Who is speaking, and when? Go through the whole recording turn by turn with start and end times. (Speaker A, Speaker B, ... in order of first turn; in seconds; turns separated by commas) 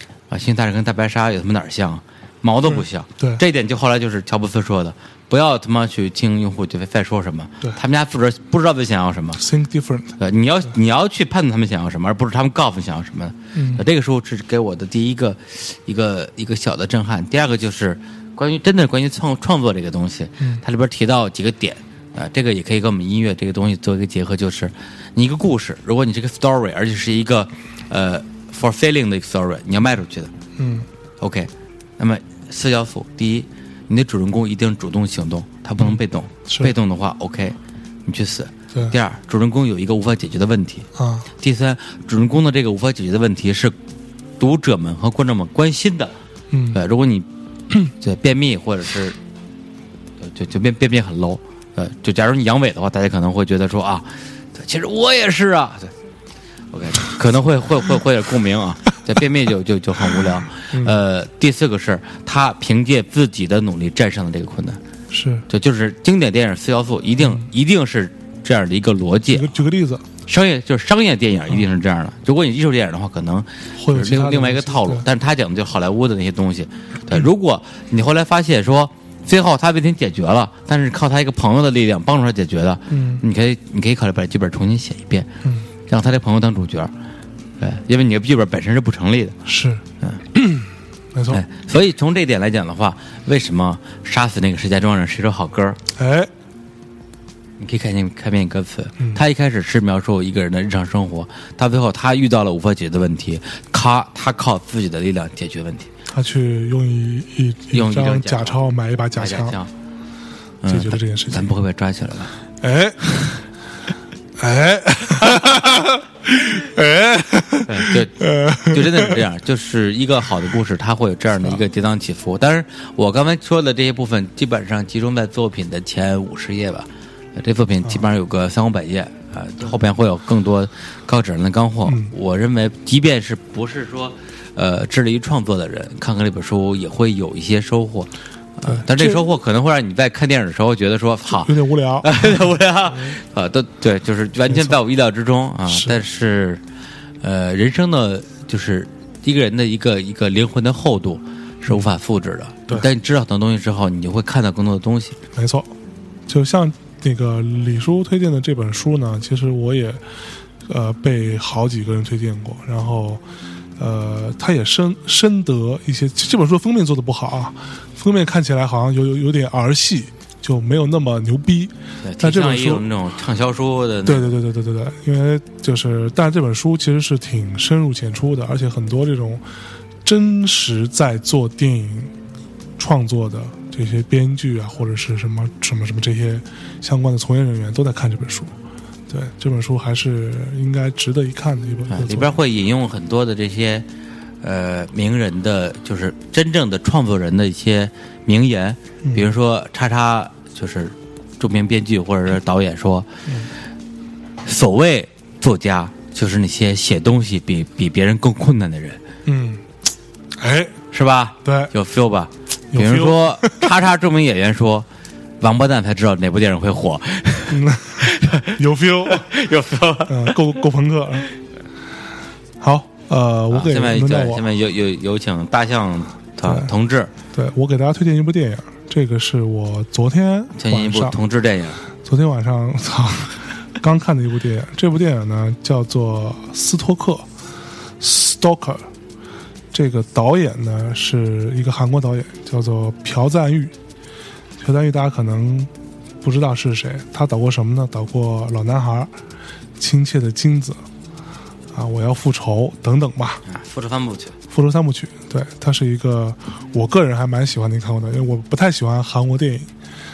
Speaker A: 0.3-9.4, Speaker B: 2.7-3.4, Speaker B: 9.4-10.2, Speaker A: 10.2-30.3, Speaker B: 13.6-13.8, Speaker B: 30.6-30.9, Speaker A: 31.2-40.9, Speaker B: 35.8-36.7, Speaker B: 41.0-41.3, Speaker A: 41.4-43.7, Speaker A: 44.4-46.1, Speaker B: 46.5-46.8, Speaker A: 46.7-47.3, Speaker A: 48.0-49.2, Speaker A: 50.2-55.9, Speaker A: 56.7-64.8, Speaker B: 65.1-65.4, Speaker A: 65.5-69.5, Speaker B: 67.2-67.5, Speaker B: 69.3-70.0, Speaker A: 70.3-85.3, Speaker B: 73.8-75.0, Speaker B: 82.9-83.2, Speaker A: 85.9-86.9, Speaker A: 87.6-89.4, Speaker B: 89.5-89.8, Speaker B: 90.3-91.4, Speaker A: 91.3-95.8, Speaker B: 96.0-96.3, Speaker A: 97.6-105.9, Speaker B: 106.1-109.5, Speaker A: 107.7-109.7, Speaker A: 110.6-112.3, Speaker B: 110.7-111.5, Speaker B: 112.6-113.3, Speaker B: 114.4-119.2, Speaker A: 117.7-146.6, Speaker B: 131.8-132.1, Speaker B: 138.7-139.2, Speaker B: 141.3-142.3, Speaker B: 142.9-143.2, Speaker B: 144.5-144.8, Speaker B: 145.7-146.0, Speaker A: 147.2-155.2, Speaker B: 155.3-155.7, Speaker B: 156.3-160.0, Speaker B: 160.7-163.2, Speaker B: 163.8-172.8, Speaker A: 172.0-174.3, Speaker B: 174.1-179.4, Speaker B: 180.0-182.1, Speaker B: 182.8-188.6, Speaker B: 189.1-192.3, Speaker A: 191.9-193.8, Speaker A: 194.4-203.1, Speaker B: 199.0-199.3, Speaker A: 204.4-209.0, Speaker B: 209.3-209.6, Speaker B: 210.4-210.8, Speaker A: 210.9-214.9, Speaker B: 211.4-211.7, Speaker B: 212.7-213.7, Speaker A: 215.4-220.4, Speaker B: 217.5-219.3, Speaker B: 220.1-221.3, Speaker B: 222.6-224.4, Speaker A: 223.5-227.1, Speaker B: 226.4-226.7, Speaker B: 227.3-231.2, Speaker A: 230.6-231.8, Speaker B: 232.0-237.3, Speaker B: 238.0-238.9, Speaker B: 239.7-243.7, Speaker B: 244.6-245.7, Speaker B: 246.2-249.1, Speaker B: 249.8-250.8, Speaker B: 251.7-253.4, Speaker A: 253.5-254.4, Speaker B: 254.5-259.7